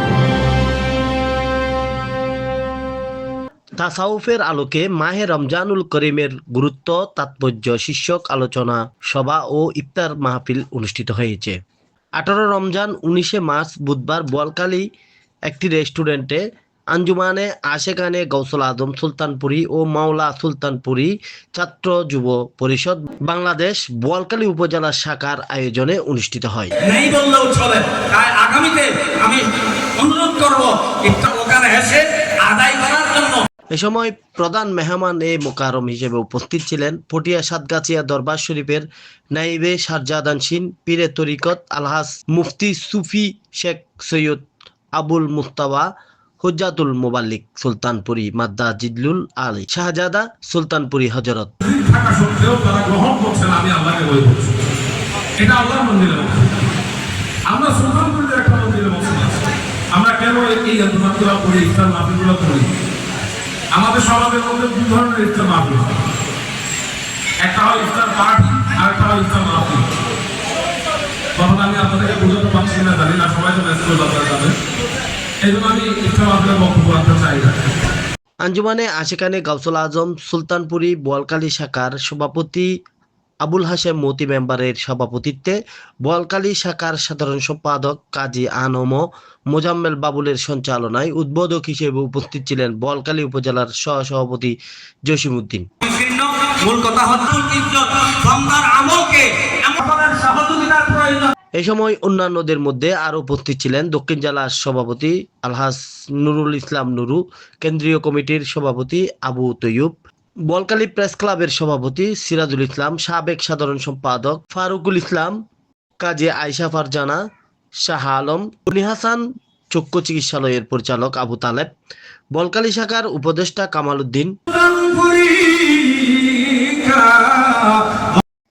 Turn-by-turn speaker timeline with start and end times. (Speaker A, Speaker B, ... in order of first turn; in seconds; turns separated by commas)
Speaker A: 3.8-11.6, Speaker A: 12.2-14.8, Speaker A: 15.5-26.7, Speaker B: 26.8-33.4, Speaker A: 33.7-45.9, Speaker A: 46.4-51.5, Speaker C: 51.6-54.5, Speaker C: 55.4-56.5, Speaker C: 57.5-62.7, Speaker C: 63.7-65.9, Speaker C: 67.4-69.8, Speaker C: 71.4-74.5, Speaker C: 75.4-77.5, Speaker A: 78.4-82.7, Speaker A: 83.4-95.6, Speaker B: 95.8-101.3, Speaker A: 101.6-115.3, Speaker A: 116.0-117.2, Speaker A: 117.8-121.7, Speaker A: 122.3-124.3, Speaker B: 124.5-128.2